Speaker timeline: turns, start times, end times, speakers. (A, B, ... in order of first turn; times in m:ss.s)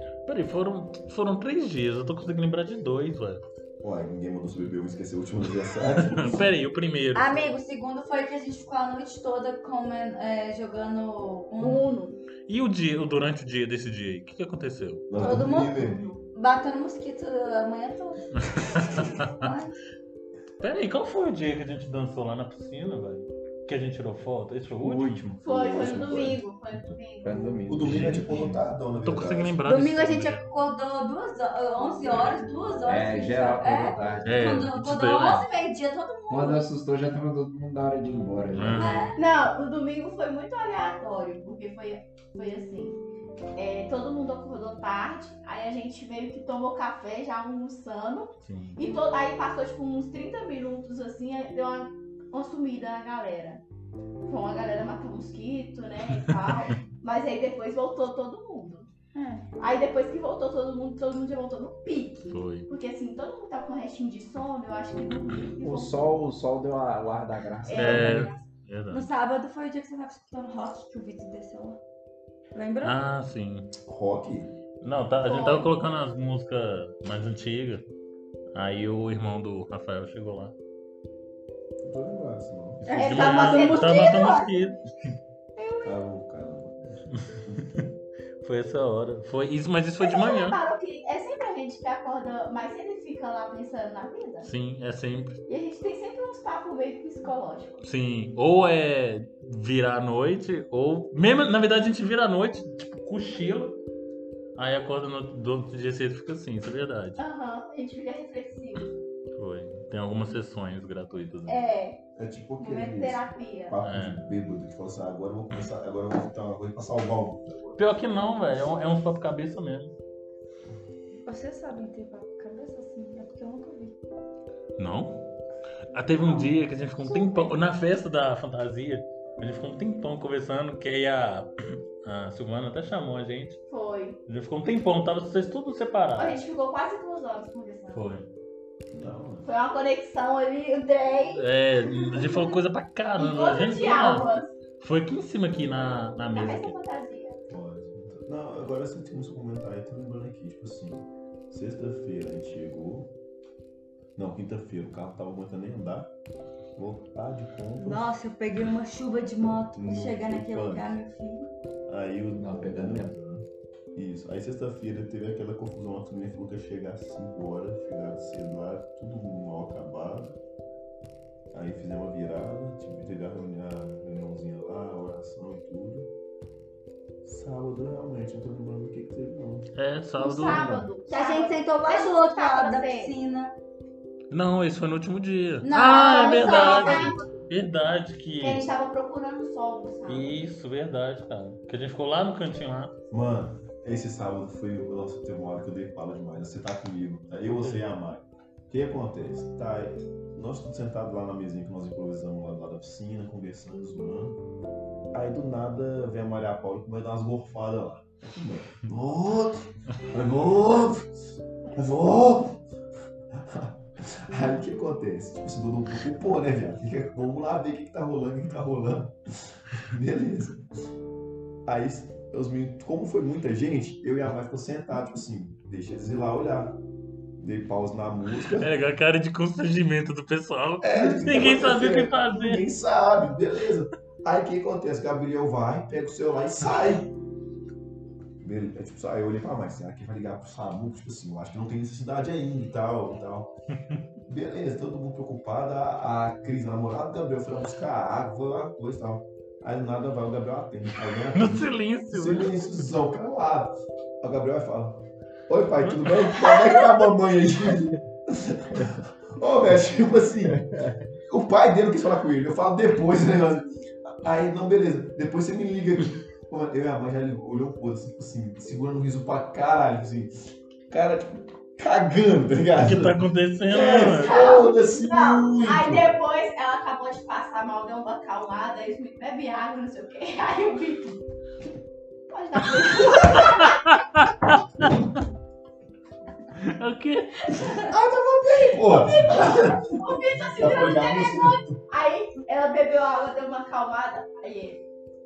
0:00.3-0:03.4 A
0:03.8-0:06.5 B
0:06.0-0:07.5 A
0:07.2-0:11.9 C
0:11.6-0:12.2 D
0:12.5-0:15.1 A
0:15.1-0:16.1 B
0:15.1-0:19.8 C
0:15.2-0:16.2 D
0:18.4-0:19.5 A
0:20.6-0:25.4 A
0:24.8-0:26.4 E
0:25.4-0:27.6 D
0:25.5-0:26.4 B
0:27.2-0:28.6 E
0:27.7-0:29.6 B
0:27.8-0:30.5 A
0:29.6-0:36.7 C
0:32.8-0:34.4 E
0:34.2-0:35.5 A
0:36.3-0:39.1 E
0:38.5-0:39.1 A
0:38.7-0:39.2 C
0:39.2-0:43.0 D
0:43.6-0:53.6 D
0:48.4-0:48.8 A
0:54.3-0:58.9 D
0:56.2-0:56.5 A
0:59.2-0:59.4 C
0:59.6-1:06.2 D
1:02.3-1:02.7 A
1:05.6-1:08.3 E
1:07.6-1:08.4 D
1:07.8-1:09.1 A
1:08.9-1:11.8 C
1:12.5-1:13.0 C
1:12.8-1:13.7 A
1:13.8-1:14.5 B
1:14.8-1:17.9 A
1:15.3-1:15.7 C
1:18.5-1:20.6 A
1:21.8-1:23.1 B
1:22.9-1:24.5 C
1:23.0-1:24.3 D
1:23.0-1:24.8 A
1:25.6-1:26.0 C
1:25.8-1:27.7 B
1:27.3-1:27.8 A
1:28.4-1:30.6 A
1:30.0-1:34.5 D
1:34.4-1:35.4 A
1:35.5-1:37.8 D
1:37.8-1:43.8 A
1:44.6-1:47.2 A
1:47.2-1:48.9 D
1:49.4-1:51.6 A
1:51.5-1:52.0 D
1:52.2-1:57.8 B
1:52.6-1:53.8 D
1:53.8-1:54.2 A
1:57.8-1:59.9 A
2:01.3-2:03.9 C
2:04.8-2:05.3 A
2:05.9-2:13.6 A
2:07.0-2:07.5 C
2:13.7-2:14.2 D
2:14.3-2:16.4 A
2:16.2-2:18.1 D
2:17.9-2:18.3 A
2:18.9-2:19.5 B
2:19.4-2:22.6 D
2:21.3-2:24.3 A
2:23.2-2:24.5 D
2:24.8-2:26.8 A
2:26.3-2:27.4 D
2:27.5-2:33.1 B
2:34.2-2:36.1 B
2:36.8-2:38.1 B
2:37.8-2:41.5 C
2:39.8-2:41.0 B
2:41.9-2:50.4 B
2:42.4-2:43.1 E
2:51.5-2:56.1 B
2:57.2-2:59.7 B
2:59.8-3:00.8 A
3:00.2-3:03.1 D
3:01.1-3:03.5 C
3:04.3-3:08.7 A
3:05.6-3:07.3 C
3:05.9-3:07.3 D
3:08.4-3:10.4 D
3:10.1-3:12.9 A
3:13.1-3:24.4 B
3:17.5-3:17.9 A
3:25.1-3:31.1 B
3:31.7-3:32.6 B
3:33.4-3:40.6 B
3:41.6-3:46.8 B
3:47.4-3:48.7 B
3:48.6-3:52.6 A
3:50.8-3:57.1 B
3:58.4-4:03.5 B
4:04.3-4:20.6 B
4:11.3-4:12.8 A
4:15.8-4:16.3 A
4:20.5-4:21.0 E
4:21.3-4:30.3 B
4:30.9-4:36.1 B
4:32.8-4:34.4 A
4:33.7-4:41.2 D
4:42.3-4:43.8 D
4:43.1-4:45.0 A
4:46.5-4:47.6 A
4:47.5-4:51.7 B
4:48.8-4:54.8 D